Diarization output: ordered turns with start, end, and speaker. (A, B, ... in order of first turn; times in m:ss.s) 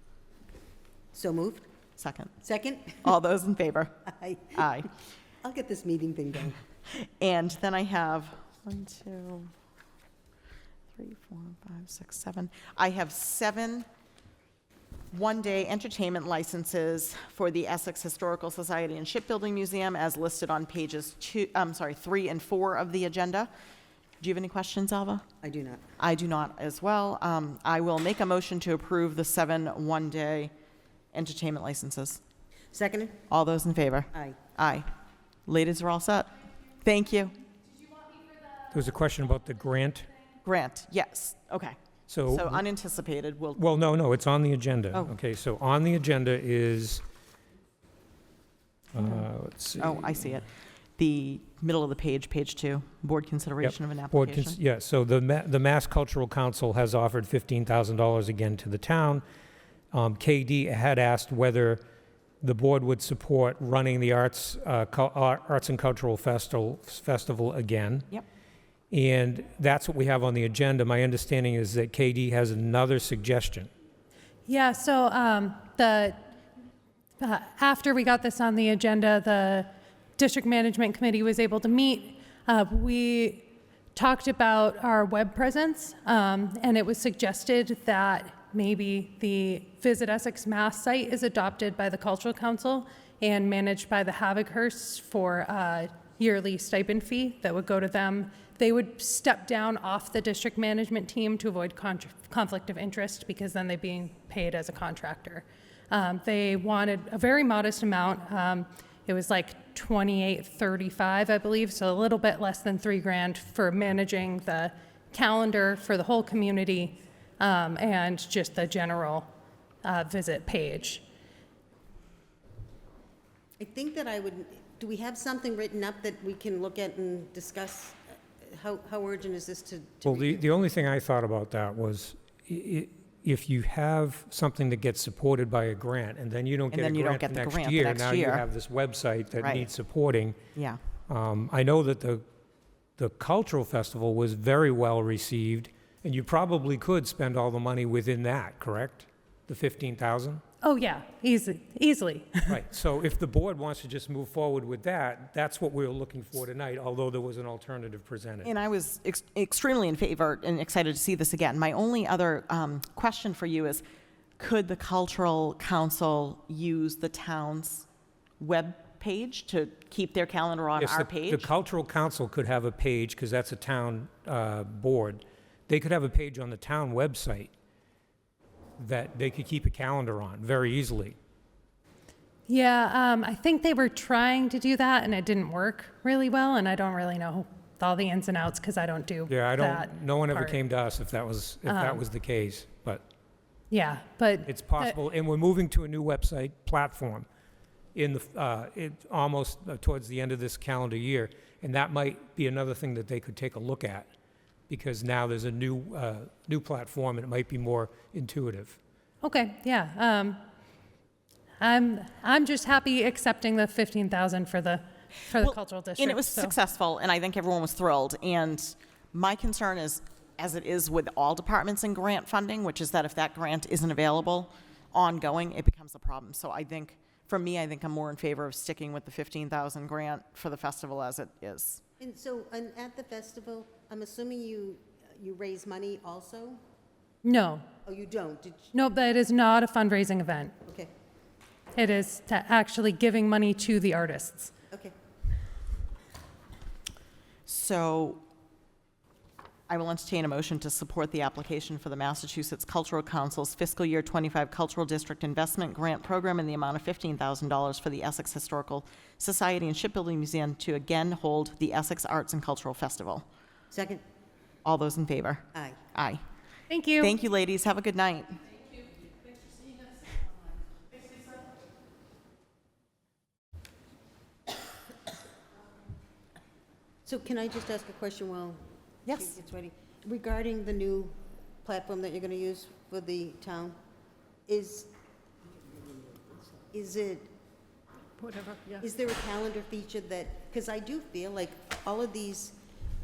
0:01.1-0:01.6 A
0:02.0-0:02.4 B
0:02.4-0:03.1 A
0:03.0-0:04.0 B
0:04.1-0:04.6 A
0:04.5-0:04.9 B
0:05.4-0:06.6 A
0:06.9-0:09.5 B
0:10.9-0:13.8 B
0:15.1-0:23.5 B
0:24.2-0:25.2 B
0:25.4-0:25.8 A
0:26.0-0:30.5 B
0:31.1-0:32.2 B
0:32.7-0:33.2 A
0:33.3-0:34.9 B
0:35.5-0:37.4 B
0:37.9-0:38.6 C
0:38.7-0:40.1 D
0:40.4-0:41.8 B
0:42.1-0:42.6 D
0:42.3-0:43.6 B
0:43.6-0:47.0 D
0:48.9-0:50.1 D
0:49.8-0:54.6 B
0:53.6-0:59.2 D
0:59.9-1:01.8 D
1:02.4-1:08.1 D
1:08.9-1:13.7 D
1:14.5-1:16.2 C
1:17.2-1:59.3 C
1:59.8-2:01.0 C
2:03.6-2:10.5 A
2:10.1-2:20.4 D
2:16.7-2:18.4 B
2:19.4-2:19.7 B
2:21.1-2:22.2 D
2:23.0-2:30.4 D
2:30.6-2:32.6 C
2:32.5-2:38.5 D
2:38.4-2:43.8 B
2:44.4-2:47.9 B
2:48.4-2:51.5 B
2:50.8-2:57.5 D
2:58.8-3:01.2 D
3:02.5-3:10.6 C
3:09.3-3:13.0 D
3:11.7-3:12.0 C
3:13.7-3:14.9 C
3:14.4-3:17.3 D
3:17.9-3:24.1 D
3:24.7-3:28.8 D
3:29.2-3:30.4 C
3:31.6-3:36.5 C
3:35.3-3:51.8 B
3:52.0-3:56.6 A
3:57.2-3:57.6 C
3:57.8-3:58.7 A
3:58.7-4:00.5 C
4:01.8-4:04.5 C
4:07.4-4:08.2 B
4:09.7-4:23.2 B
4:23.7-4:24.0 A
4:24.6-4:26.2 B
4:26.7-4:27.1 C
4:27.0-4:28.4 B
4:37.0-4:43.8 A
4:39.0-4:39.3 B
4:44.5-4:44.9 A
4:46.7-4:47.3 A
4:48.7-4:52.6 A